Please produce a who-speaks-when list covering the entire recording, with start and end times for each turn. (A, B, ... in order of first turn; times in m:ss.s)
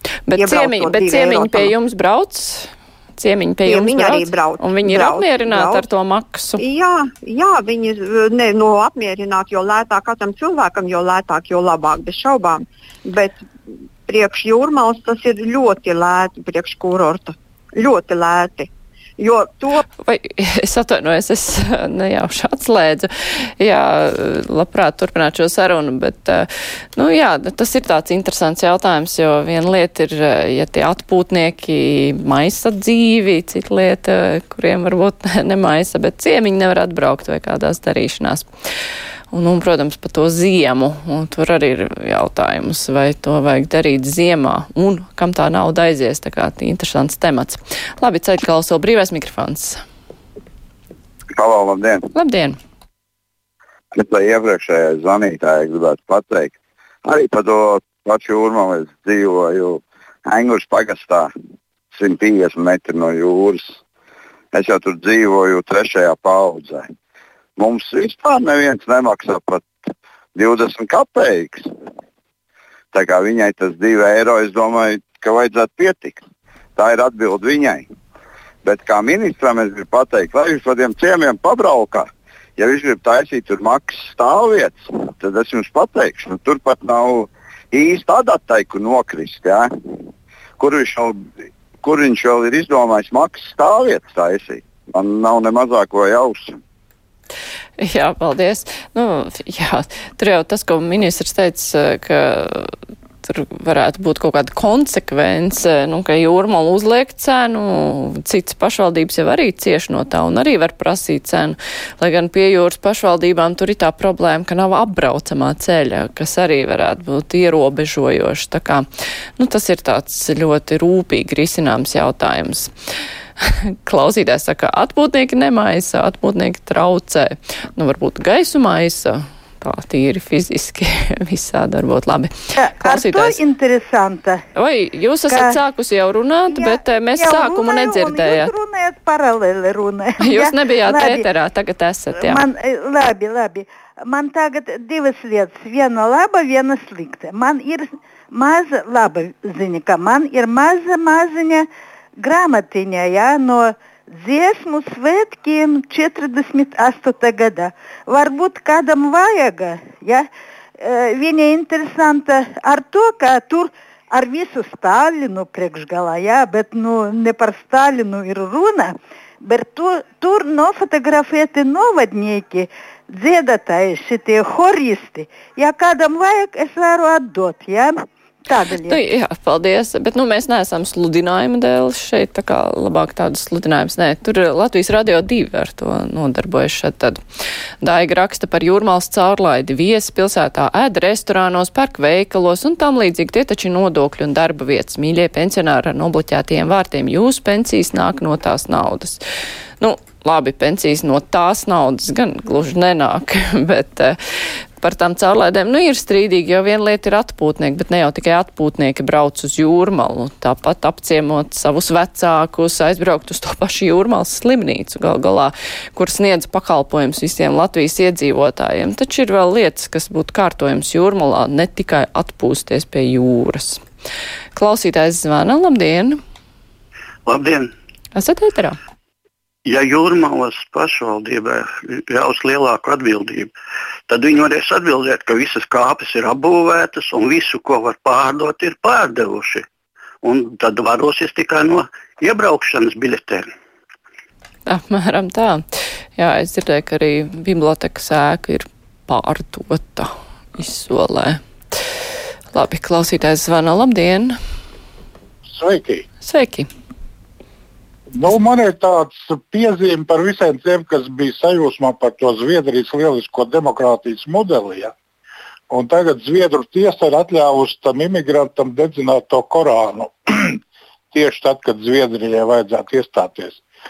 0:00.2-0:06.6 A
0:00.4-0:01.7 B
0:03.6-0:05.8 B
0:06.6-0:19.8 B
0:20.0-0:38.4 A
0:39.3-0:49.8 A
0:51.3-0:52.0 C
0:52.1-0:52.6 A
0:53.9-1:01.3 C
1:01.9-1:03.8 C
1:04.5-1:06.9 C
1:07.6-1:09.6 C
1:10.3-1:11.7 C
1:12.9-1:16.2 C
1:16.8-1:17.9 C
1:18.6-1:29.7 C
1:30.6-1:31.2 C
1:31.8-1:36.6 C
1:37.8-1:42.7 A
1:43.2-1:58.8 A
1:59.4-2:02.7 A
2:03.4-2:13.3 A
2:12.6-2:14.4 D
2:14.5-2:18.5 A
2:15.3-2:15.6 D
2:16.5-2:21.2 D
2:20.2-2:22.4 A
2:22.2-2:31.6 D
2:32.2-2:40.3 D
2:40.8-2:59.0 D
2:58.9-3:07.2 A
3:07.8-3:19.2 A
3:19.8-3:24.2 A
3:24.8-3:43.8 A
3:44.5-3:46.2 A
3:47.3-3:47.7 E
3:48.1-3:48.8 A
3:49.7-3:53.5 E
3:54.1-3:59.6 E
4:00.2-4:03.5 E
4:04.6-4:05.6 A
4:06.2-4:11.4 A
4:12.5-4:14.4 A
4:15.5-4:16.0 F
4:16.2-4:16.7 A
4:18.1-4:24.9 F
4:25.7-4:30.6 F
4:31.1-4:33.6 F